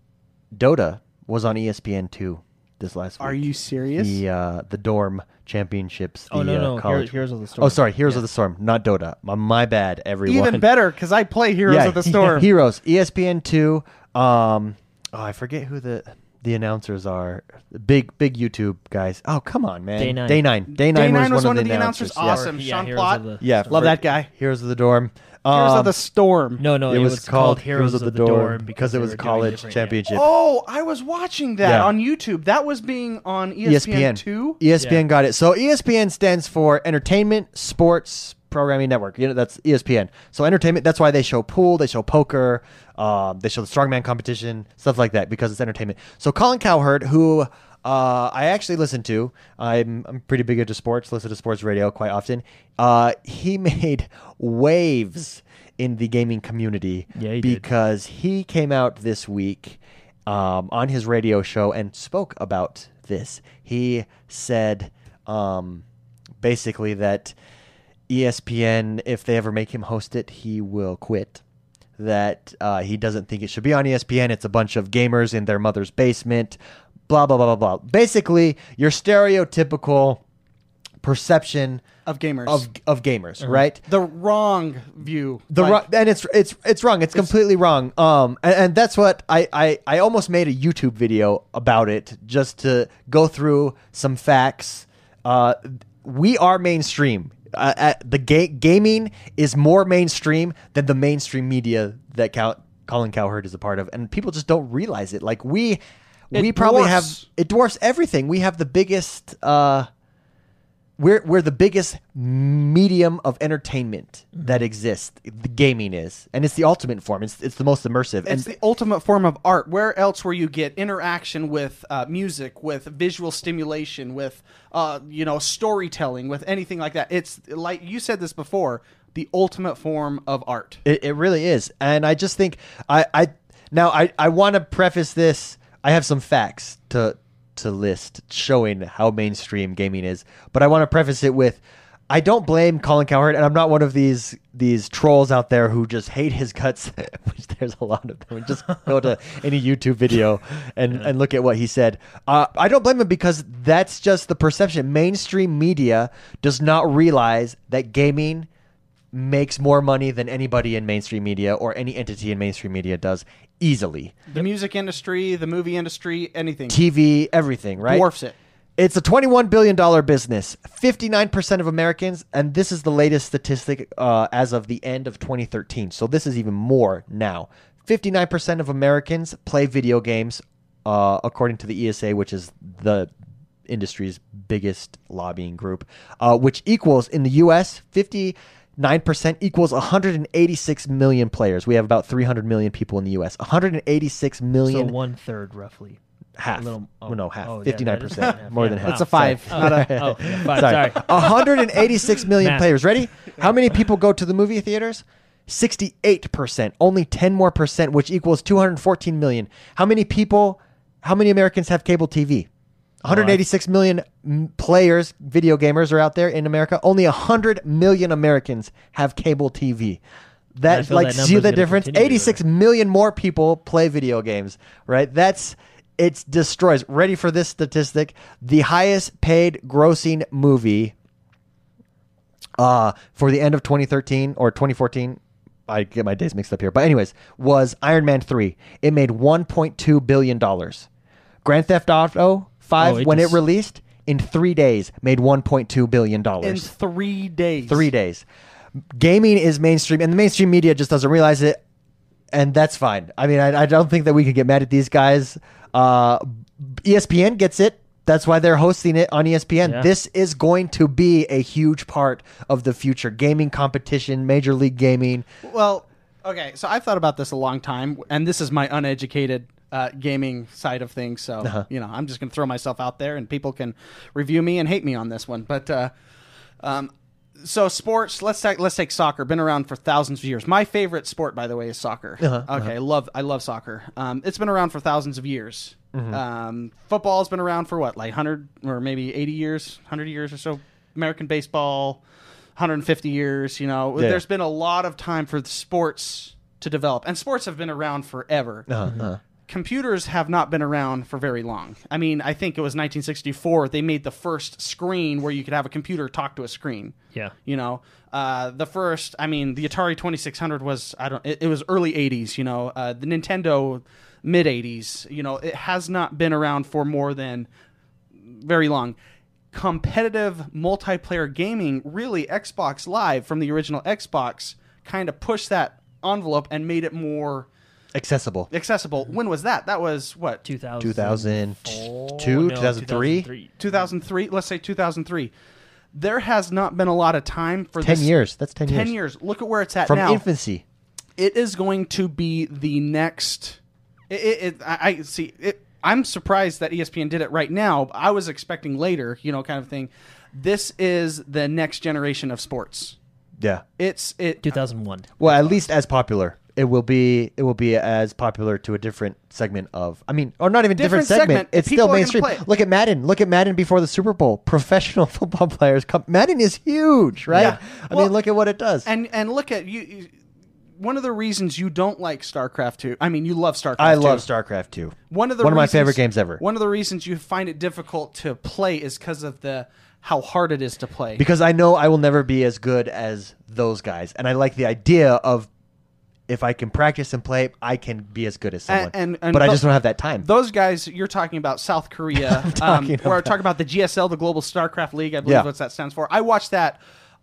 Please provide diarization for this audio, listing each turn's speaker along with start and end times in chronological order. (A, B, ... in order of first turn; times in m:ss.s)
0:00.5-0:10.7 A
0:03.2-0:04.2 B
0:06.3-0:08.2 C
0:10.3-0:12.5 B
0:11.7-0:22.5 A
0:20.0-0:20.4 C
0:20.7-0:24.3 B
0:22.3-0:23.8 C
0:23.4-0:26.0 A
0:25.5-0:26.6 B
0:26.6-0:30.0 C
0:26.9-0:30.3 A
0:30.1-0:34.6 B
0:31.6-0:31.9 A
0:33.6-1:05.8 A
0:57.2-0:57.6 C
1:06.4-1:07.4 A
1:08.1-1:11.4 A
1:12.0-1:20.2 A
1:21.0-1:21.8 A
1:22.1-1:22.6 B
1:22.5-1:23.8 A
1:23.9-1:25.8 B
1:25.5-1:45.8 A
1:46.3-1:49.9 A
1:46.3-1:47.2 B
1:51.0-1:58.5 A
1:58.2-2:10.8 B
2:10.8-2:38.5 A
2:39.1-2:44.3 A
2:44.3-2:46.8 B
2:46.7-2:48.1 A
2:47.8-2:48.4 B
2:48.8-3:03.1 A
3:03.7-3:14.9 A
3:14.6-3:16.0 C
3:16.4-3:32.5 A
3:16.6-3:21.5 C
3:18.8-3:20.7 B
3:22.4-3:22.7 C
3:33.0-3:40.0 A
3:33.1-3:33.4 C
3:40.6-3:50.9 A
3:40.7-3:42.4 C
3:52.6-4:00.9 A
4:01.4-4:06.7 A
4:02.8-4:03.4 C
4:06.4-4:07.9 B
4:07.6-4:08.2 A
4:08.9-4:11.6 A
4:12.3-4:25.3 A
4:19.6-4:19.9 C
4:25.4-4:35.9 B
4:36.6-4:52.0 B
4:42.2-4:42.7 A
4:45.9-4:46.2 A
4:52.6-4:58.9 B
4:54.0-4:54.2 A
4:58.7-4:59.2 A
4:59.5-5:07.0 B
5:07.5-5:17.5 B
5:18.2-5:19.0 B
5:19.5-5:27.5 B
5:28.0-5:28.5 A
5:28.5-5:30.4 B
5:30.4-5:33.6 C
5:30.8-5:33.3 A
5:33.6-5:35.3 B
5:35.9-5:38.1 B
5:37.8-5:39.0 A
5:38.7-5:40.2 B
5:39.8-5:40.6 A
5:41.2-5:43.6 B
5:44.1-5:53.0 B
5:53.8-5:54.6 B
5:54.4-5:55.2 C
5:55.2-6:08.9 A
6:00.8-6:02.4 B
6:07.3-6:08.1 B
6:08.8-6:10.1 B
6:10.8-6:14.3 B
6:13.8-6:16.4 A
6:15.1-6:21.2 B
6:21.2-6:25.5 A
6:26.3-6:30.3 A
6:28.7-6:36.8 B
6:32.2-6:33.3 A